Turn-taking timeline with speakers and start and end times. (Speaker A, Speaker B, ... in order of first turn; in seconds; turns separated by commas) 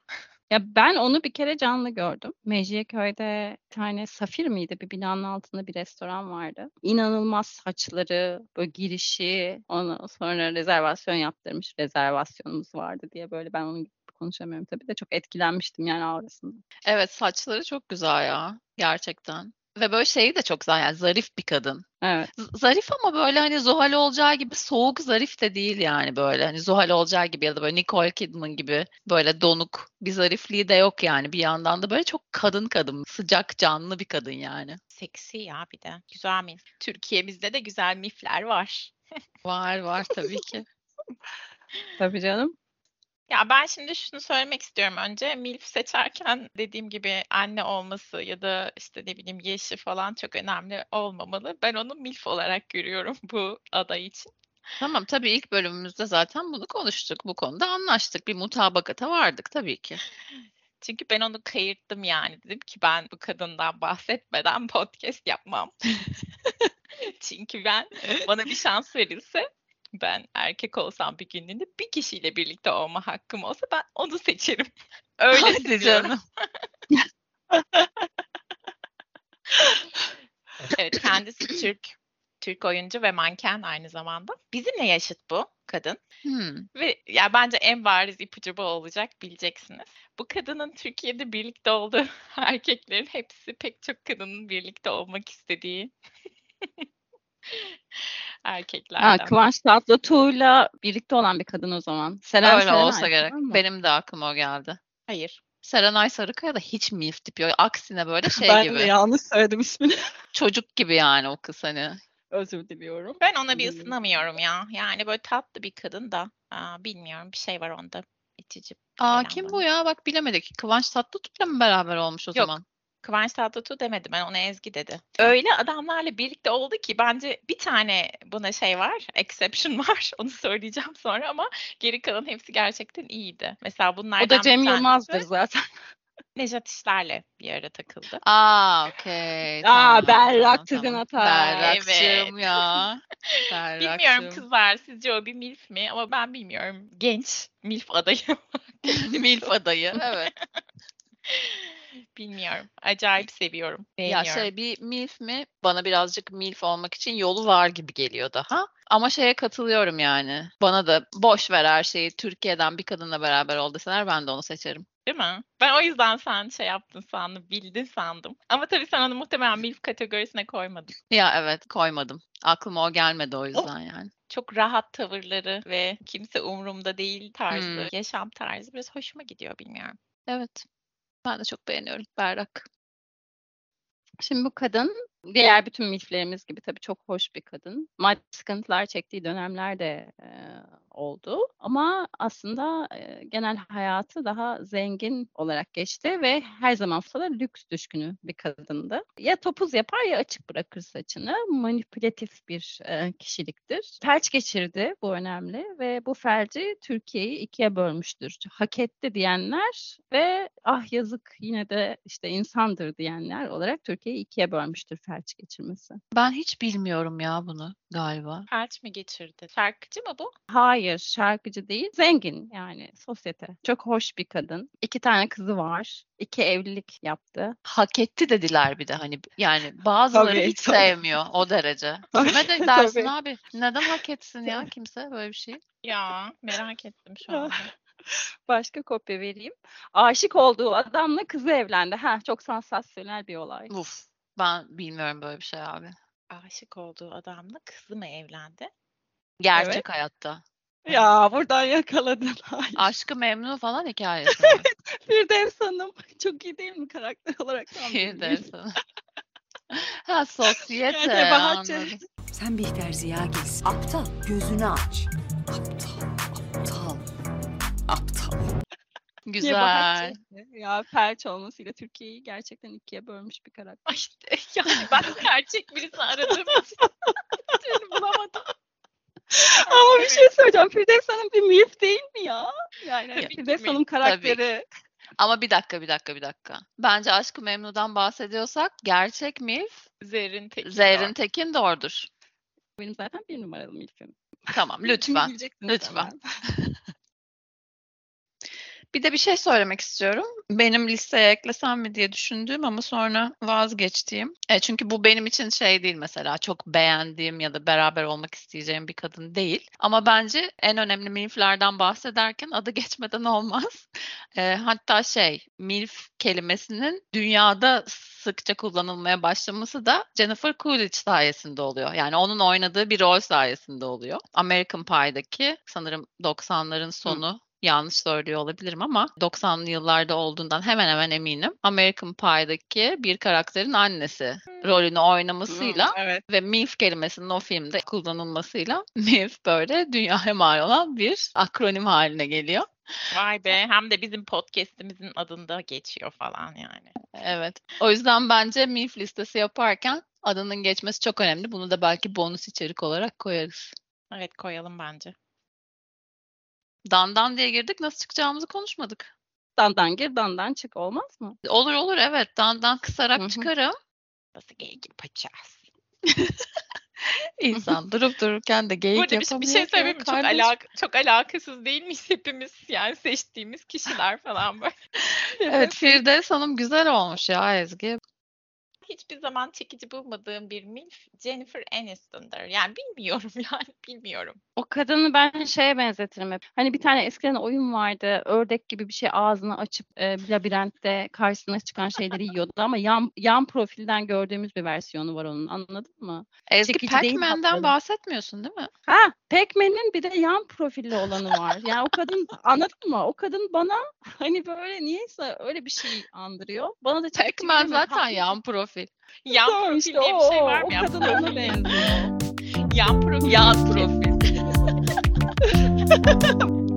Speaker A: 0.5-16.6, Speaker B: 16.9-21.8, Speaker A: 22.0-22.3, Speaker B: 22.4-34.8, Speaker C: 34.9-38.9, Speaker B: 39.4-40.6, Speaker A: 42.0-42.5, Speaker C: 43.3-54.3, Speaker B: 54.8-60.0, Speaker C: 60.8-65.7, Speaker C: 67.0-76.2, Speaker B: 75.3-76.2, Speaker A: 77.5-77.9, Speaker C: 80.7-86.0, Speaker B: 86.2-86.7, Speaker C: 86.7-95.9, Speaker C: 97.5-99.3, Speaker A: 99.0-103.6, Speaker B: 102.4-104.8, Speaker C: 105.1-105.4, Speaker B: 105.6-108.9, Speaker A: 108.4-109.9, Speaker B: 110.3-112.0, Speaker A: 112.3-114.0, Speaker C: 113.2-119.6, Speaker B: 119.0-122.6, Speaker C: 122.3-135.2, Speaker A: 134.2-135.6, Speaker C: 136.3-138.2, Speaker B: 138.2-144.4, Speaker A: 139.6-141.7, Speaker C: 141.6-142.3, Speaker C: 143.8-150.4, Speaker B: 148.9-150.3, Speaker C: 151.3-154.5, Speaker B: 154.1-164.8, Speaker C: 165.1-170.9, Speaker B: 171.1-174.1, Speaker C: 174.3-179.9, Speaker B: 177.5-177.9, Speaker B: 180.3-180.6, Speaker B: 181.2-182.6, Speaker A: 184.2-216.0, Speaker B: 216.1-218.5, Speaker C: 218.5-220.3, Speaker A: 220.5-227.6, Speaker B: 227.7-235.6, Speaker A: 230.1-230.9, Speaker A: 232.1-233.1, Speaker C: 235.8-237.7, Speaker A: 237.3-243.7, Speaker B: 243.7-245.9, Speaker C: 246.3-248.7, Speaker B: 249.4-251.1, Speaker A: 249.5-249.8, Speaker A: 250.8-252.9, Speaker B: 252.8-254.7, Speaker A: 254.4-258.4, Speaker B: 257.8-258.8, Speaker B: 259.7-262.0, Speaker A: 260.9-261.9, Speaker D: 262.3-264.8, Speaker D: 266.6-267.0, Speaker D: 267.9-268.4, Speaker B: 269.2-270.2, Speaker A: 269.4-273.8, Speaker C: 273.9-276.8, Speaker C: 277.5-278.5, Speaker A: 279.3-284.6, Speaker C: 279.6-280.3, Speaker C: 283.2-283.8, Speaker B: 284.0-284.4, Speaker B: 285.2-289.9, Speaker C: 290.0-291.1, Speaker B: 290.6-292.1, Speaker A: 292.8-294.2, Speaker B: 294.5-296.1, Speaker A: 294.8-296.2, Speaker B: 298.9-342.6, Speaker A: 335.5-335.8, Speaker C: 335.8-336.2, Speaker C: 343.1-347.0, Speaker B: 347.1-353.7, Speaker C: 354.1-355.1, Speaker B: 356.9-359.1, Speaker A: 359.6-361.4, Speaker B: 361.4-363.7, Speaker A: 363.2-363.5, Speaker C: 364.3-365.6, Speaker B: 367.4-370.5, Speaker A: 367.5-367.8, Speaker C: 368.9-374.7, Speaker B: 375.1-378.0, Speaker C: 375.4-376.0, Speaker C: 378.9-384.4, Speaker A: 384.6-397.7, Speaker B: 396.5-398.7, Speaker A: 398.9-408.2, Speaker B: 407.1-408.9, Speaker C: 409.2-412.1, Speaker A: 409.3-411.8, Speaker C: 412.7-413.9, Speaker B: 413.2-414.5, Speaker A: 415.9-416.3